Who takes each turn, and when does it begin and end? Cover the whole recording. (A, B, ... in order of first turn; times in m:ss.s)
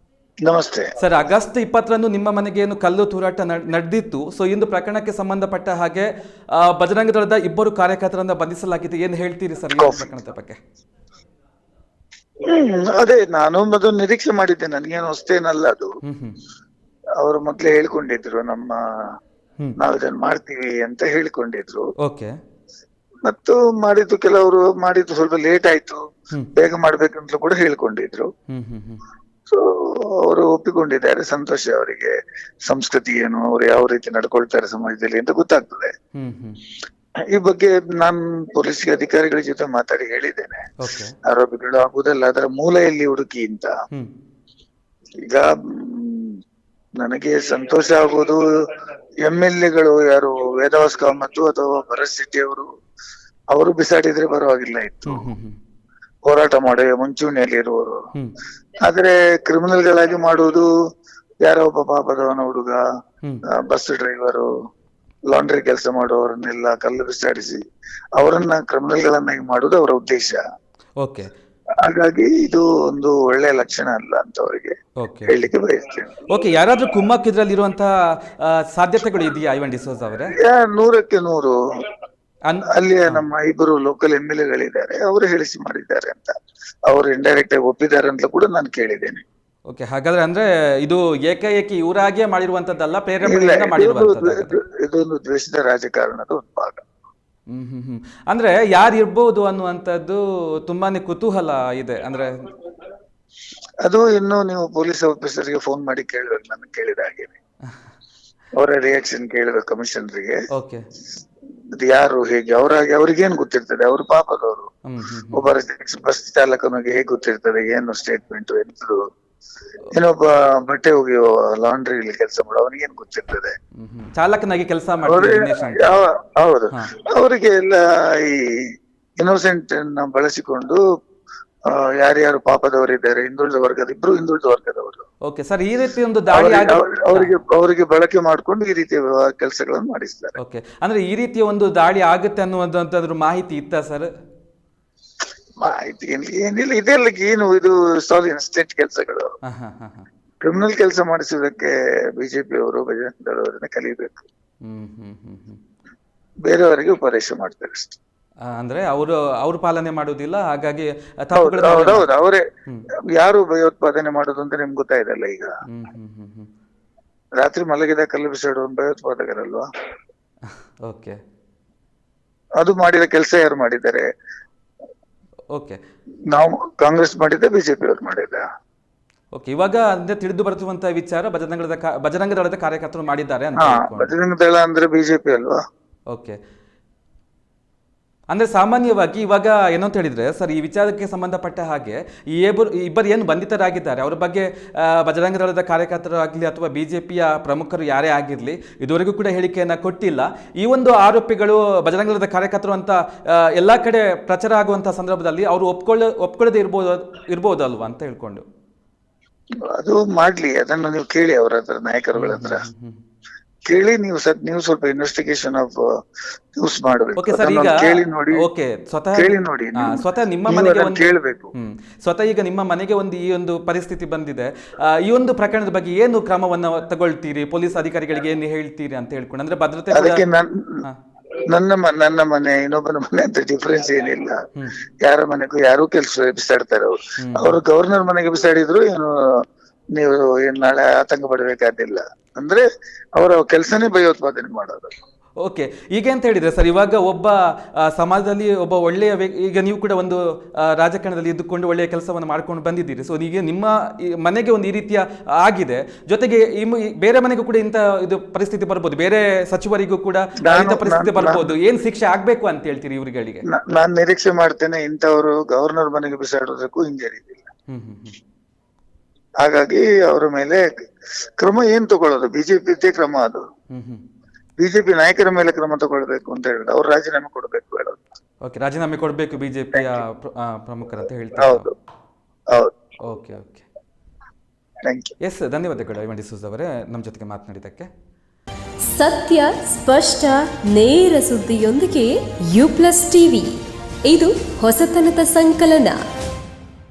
0:00.4-0:00.9 A
0:01.0-0:10.6 B
0:09.8-0:10.1 A
0:12.5-0:15.9 A
0:16.0-0:16.4 B
0:17.2-0:18.8 A
0:19.8-0:21.8 A
0:22.0-0:22.3 B
0:23.2-0:26.0 A
0:26.6-0:28.3 A
0:28.5-0:29.0 B
0:29.5-0:32.1 A
0:32.7-0:35.9 A
0:36.2-0:36.6 B
0:37.3-0:40.6 A
0:40.8-0:41.1 B
0:41.2-0:43.7 A
0:45.3-0:46.4 A
0:47.0-0:48.4 A
0:49.2-0:52.7 A
0:53.5-0:55.3 A
0:55.1-0:55.6 B
0:56.3-0:58.0 A
0:58.8-1:00.7 A
1:01.4-1:02.8 A
1:03.6-1:04.5 A
1:05.3-1:07.6 A
1:08.2-1:10.4 A
1:11.0-1:11.3 B
1:11.8-1:14.7 A
1:15.0-1:15.4 B
1:15.3-1:16.2 A
1:16.3-1:20.4 B
1:20.4-1:21.6 A
1:22.5-1:23.2 B
1:22.7-1:26.3 A
1:26.9-1:29.2 A
1:29.7-1:34.6 B
1:33.2-1:36.8 A
1:37.5-1:42.5 B
1:43.8-1:47.4 A
1:48.6-1:50.4 A
1:50.5-1:50.8 B
1:51.8-1:54.7 A
1:54.9-1:55.5 B
1:55.3-1:59.0 A
1:59.9-2:03.5 A
2:03.8-2:06.1 B
2:05.0-2:08.5 A
2:09.2-2:10.8 A
2:11.7-2:15.0 A
2:15.3-2:17.4 B
2:16.3-2:20.4 A
2:20.4-2:24.1 B
2:25.6-2:29.3 A
2:29.4-2:30.1 B
2:30.4-2:34.2 A
2:34.6-2:35.6 B
2:36.4-2:38.0 A
2:38.4-2:42.1 B
2:41.4-2:42.4 A
2:43.1-2:45.5 A
2:45.7-2:46.5 B
2:47.4-2:49.7 A
2:50.8-2:51.2 B
2:52.6-2:54.1 A
2:55.5-2:55.8 B
2:56.3-2:58.4 A
2:59.3-3:04.1 B
3:03.6-3:05.6 A
3:06.1-3:06.4 B
3:08.3-3:28.4 B
3:29.7-3:32.6 A
3:32.2-3:33.0 B
3:33.7-3:35.8 A
3:36.6-3:38.5 A
3:37.2-3:50.2 B
3:39.2-3:41.5 A
3:49.9-3:50.7 A
3:51.5-3:54.4 A
3:55.0-3:59.1 A
3:57.2-3:57.6 B
4:00.0-4:02.6 A
4:03.2-4:04.9 A
4:05.4-4:23.4 B
4:20.4-4:21.5 A
4:23.5-4:27.5 A
4:27.7-4:28.2 B
4:29.4-4:30.7 A
4:31.4-4:33.4 A
4:33.7-4:34.0 B
4:34.6-4:38.0 A
4:38.4-4:41.7 B
4:39.7-4:40.0 A
4:41.4-4:41.7 A
4:43.0-4:43.6 B
4:44.8-4:45.1 A
4:45.2-4:47.9 B
4:48.8-4:53.5 C
4:54.1-4:56.0 C